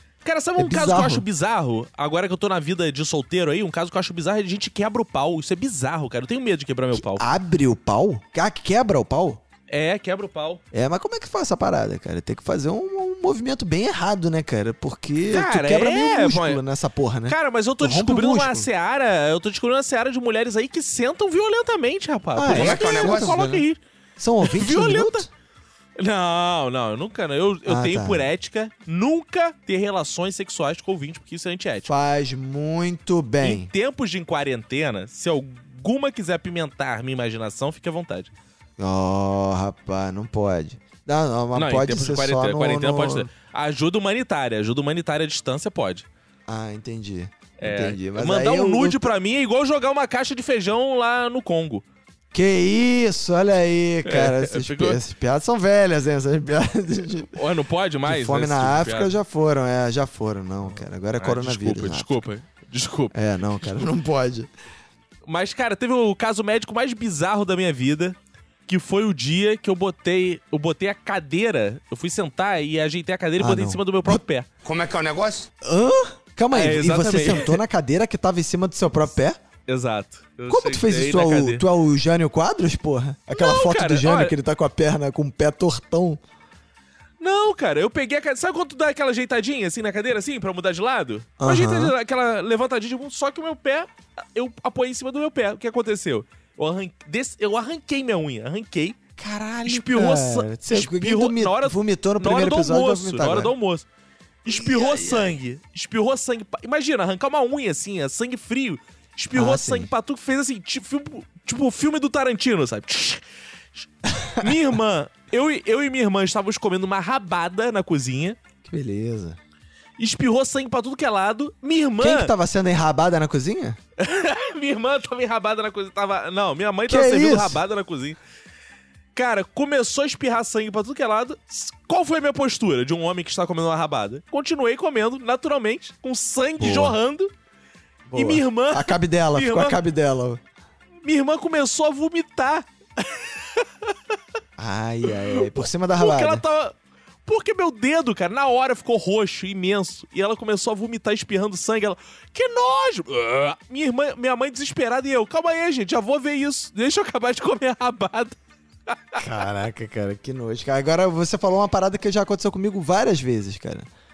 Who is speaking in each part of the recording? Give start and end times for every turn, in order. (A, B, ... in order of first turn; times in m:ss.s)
0:00.2-0:07.2 A
0:00.6-0:01.2 B
0:06.9-0:09.4 B
0:09.7-0:10.6 A
0:10.7-0:18.7 B
0:15.3-0:16.6 A
0:17.3-0:23.8 A
0:22.4-0:23.6 B
0:22.5-0:23.4 C
0:24.2-0:25.3 B
0:24.4-0:25.3 A
0:26.0-0:31.9 A
0:27.7-0:28.3 B
0:31.8-0:33.7 B
0:33.4-0:38.3 A
0:38.8-0:43.3 B
0:41.5-0:46.1 A
0:46.5-0:49.1 B
0:47.6-0:51.8 A
0:52.3-0:57.3 B
0:54.0-0:55.0 A
0:57.3-0:59.1 A
0:58.1-1:02.2 B
1:01.2-1:03.8 A
1:03.1-1:04.5 B
1:05.3-1:08.2 A
1:08.7-1:14.5 A
1:13.4-1:14.2 B
1:14.6-1:15.5 C
1:15.6-1:19.4 B
1:16.5-1:17.6 A
1:19.7-1:21.6 A
1:20.5-1:26.2 B
1:23.3-1:24.3 A
1:27.2-1:39.0 A
1:31.4-1:31.9 B
1:39.2-1:43.5 B
1:39.6-1:43.8 A
1:44.4-1:53.2 A
1:44.5-1:45.4 B
1:49.4-1:49.9 B
1:53.8-1:58.4 A
1:54.1-1:54.5 B
1:58.6-1:59.4 B
2:00.0-2:02.3 A
2:02.0-2:03.8 B
2:04.0-2:08.2 A
2:06.9-2:07.6 B
2:09.2-2:17.3 A
2:16.6-2:17.0 B
2:18.1-2:20.4 B
2:18.2-2:19.8 A
2:21.0-2:23.9 A
2:24.6-2:26.4 B
2:25.3-2:38.4 A
2:38.9-2:39.2 A
2:39.2-2:43.9 B